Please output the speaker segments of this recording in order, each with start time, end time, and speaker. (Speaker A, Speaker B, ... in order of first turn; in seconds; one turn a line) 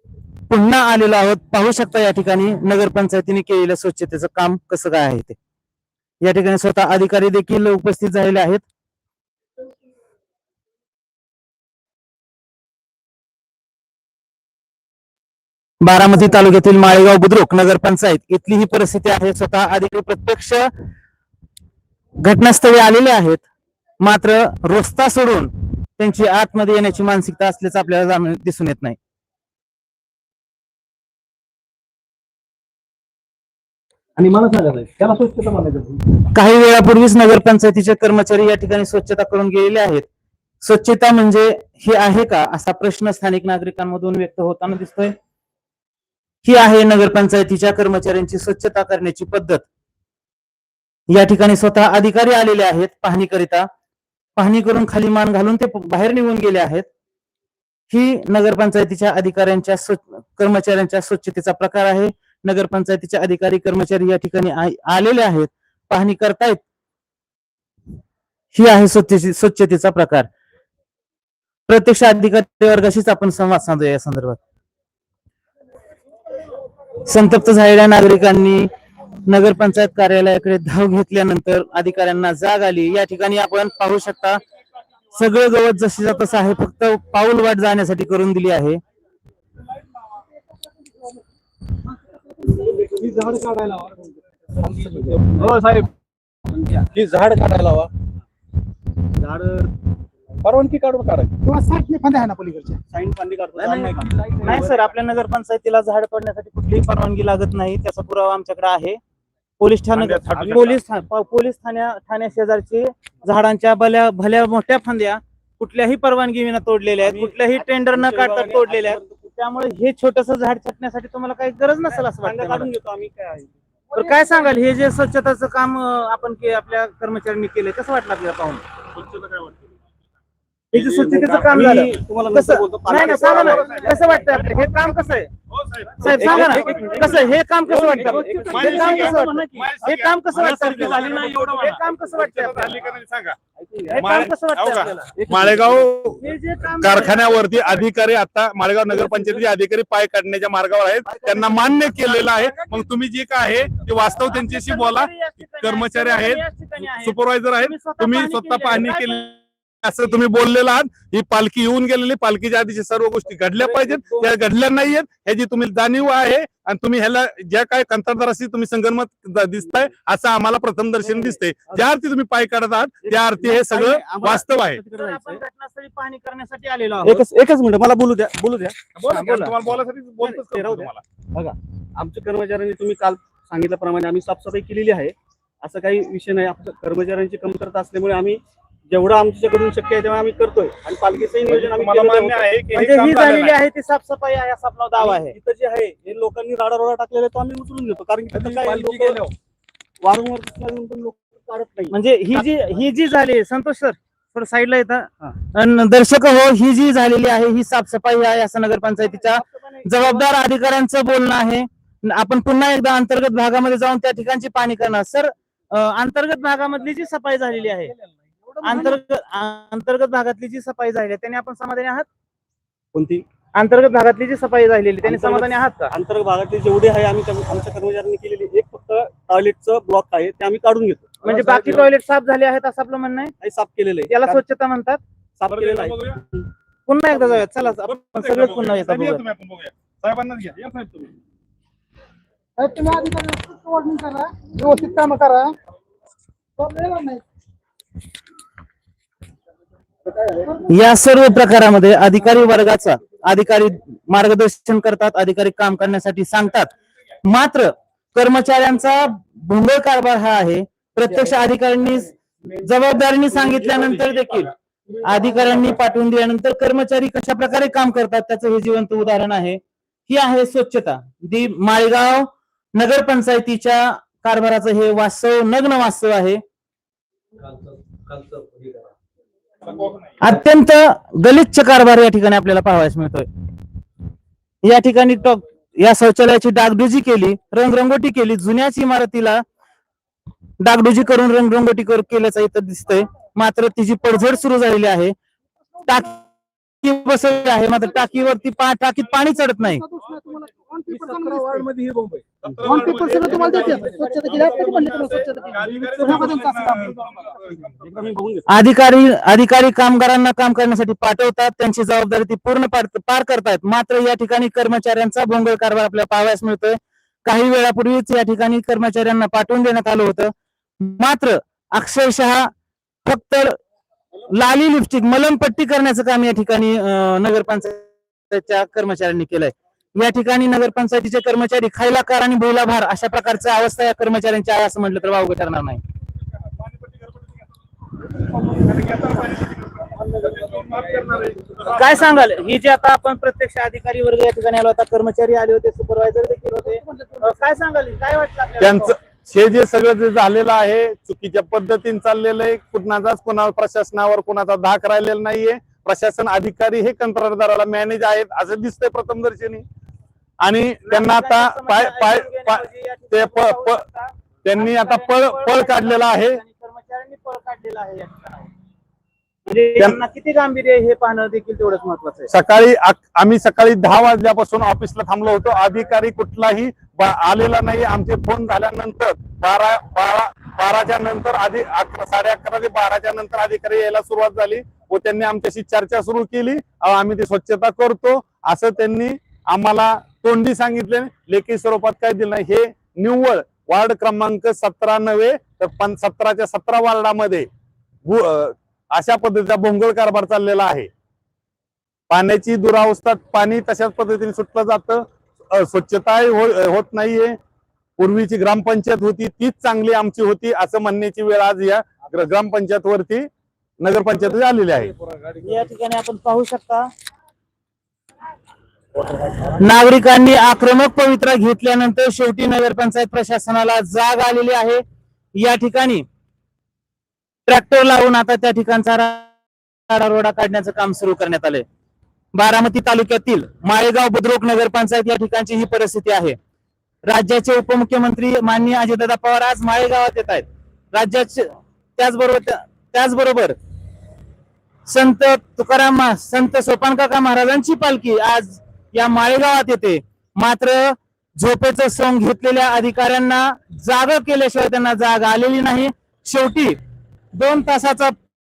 Speaker A: 0.5-5.4
Speaker A: 6.2-8.6
Speaker A: 15.8-20.7
Speaker A: 22.2-23.4
Speaker A: 24.0-29.0
Speaker B: 34.2-36.0
Speaker A: 36.3-40.1
Speaker A: 40.6-45.1
Speaker A: 46.4-49.6
Speaker A: 51.1-53.7
Speaker A: 54.4-56.9
Speaker A: 57.9-66.6
Speaker A: 68.5-70.3
Speaker A: 71.7-74.4
Speaker A: 77.0-78.7
Speaker A: 79.3-84.4
Speaker A: 85.1-88.8
Speaker B: 92.5-94.1
Speaker B: 94.6-95.9
Speaker B: 96.5-98.0
Speaker B: 99.1-99.7
Speaker B: 100.4-101.3
Speaker C: 101.4-102.8
Speaker B: 102.9-104.7
Speaker A: 103.6-109.0
Speaker A: 109.6-122.7
Speaker D: 109.9-110.8
Speaker B: 110.4-110.7
Speaker B: 117.0-119.2
Speaker B: 121.9-123.5
Speaker A: 123.9-128.6
Speaker C: 124.1-124.4
Speaker B: 130.7-134.2
Speaker A: 130.7-135.3
Speaker D: 133.1-134.4
Speaker D: 135.5-137.3
Speaker B: 136.0-139.7
Speaker A: 136.0-142.8
Speaker D: 138.5-143.4
Speaker B: 140.3-142.2
Speaker B: 143.6-144.4
Speaker A: 143.9-145.1
Speaker D: 144.0-146.2
Speaker B: 145.1-146.2
Speaker A: 146.2-147.9
Speaker D: 146.8-159.3
Speaker B: 148.9-149.5
Speaker B: 151.1-151.9
Speaker A: 154.1-159.3
Speaker D: 159.8-174.8
Speaker B: 163.6-164.3
Speaker B: 169.6-169.9
Speaker B: 171.0-171.8
Speaker B: 173.0-175.4
Speaker A: 174.9-177.2
Speaker B: 177.0-178.8
Speaker D: 179.0-181.0
Speaker A: 179.0-179.6
Speaker B: 180.2-192.7
Speaker D: 191.4-193.6
Speaker A: 192.7-195.4
Speaker B: 195.0-199.3
Speaker D: 198.3-199.3
Speaker B: 200.0-202.5
Speaker A: 201.9-217.9
Speaker B: 209.1-210.3
Speaker B: 218.5-218.9
Speaker A: 218.6-222.1
Speaker B: 222.9-223.2
Speaker A: 223.6-225.9
Speaker B: 225.0-231.9
Speaker A: 231.2-233.3
Speaker B: 233.4-234.4
Speaker A: 234.1-235.0
Speaker B: 235.4-236.2
Speaker D: 235.5-236.2
Speaker A: 236.9-239.2
Speaker D: 237.9-241.1
Speaker C: 242.6-245.5
Speaker C: 246.6-247.2
Speaker A: 250.6-256.7
Speaker A: 257.2-276.4
Speaker B: 277.5-278.8
Speaker D: 279.7-280.1
Speaker A: 280.2-283.3
Speaker A: 284.6-289.4
Speaker A: 290.6-295.1
Speaker A: 295.9-296.2
Speaker A: 296.8-299.8
Speaker C: 299.6-301.7
Speaker B: 300.9-304.4
Speaker D: 302.4-308.1
Speaker C: 302.6-307.2
Speaker B: 306.0-306.5
Speaker B: 307.2-308.5
Speaker A: 308.5-322.5
Speaker A: 323.1-323.6
Speaker A: 324.3-335.8
Speaker D: 336.6-337.1
Speaker D: 338.5-339.6
Speaker B: 340.3-341.0
Speaker D: 340.4-341.9
Speaker A: 341.7-349.0
Speaker C: 346.6-347.6
Speaker D: 348.6-359.7
Speaker D: 360.4-363.8
Speaker A: 360.9-368.5
Speaker D: 364.4-366.4
Speaker A: 369.5-372.3
Speaker D: 372.3-397.5
Speaker D: 398.1-400.9
Speaker D: 402.1-407.4
Speaker D: 408.0-413.3
Speaker D: 413.8-414.9
Speaker A: 415.4-416.9
Speaker A: 419.4-424.8
Speaker A: 425.4-426.1
Speaker A: 427.5-429.3
Speaker A: 429.9-431.6
Speaker A: 432.3-436.4
Speaker A: 437.1-443.6
Speaker A: 444.9-456.8
Speaker A: 457.4-458.2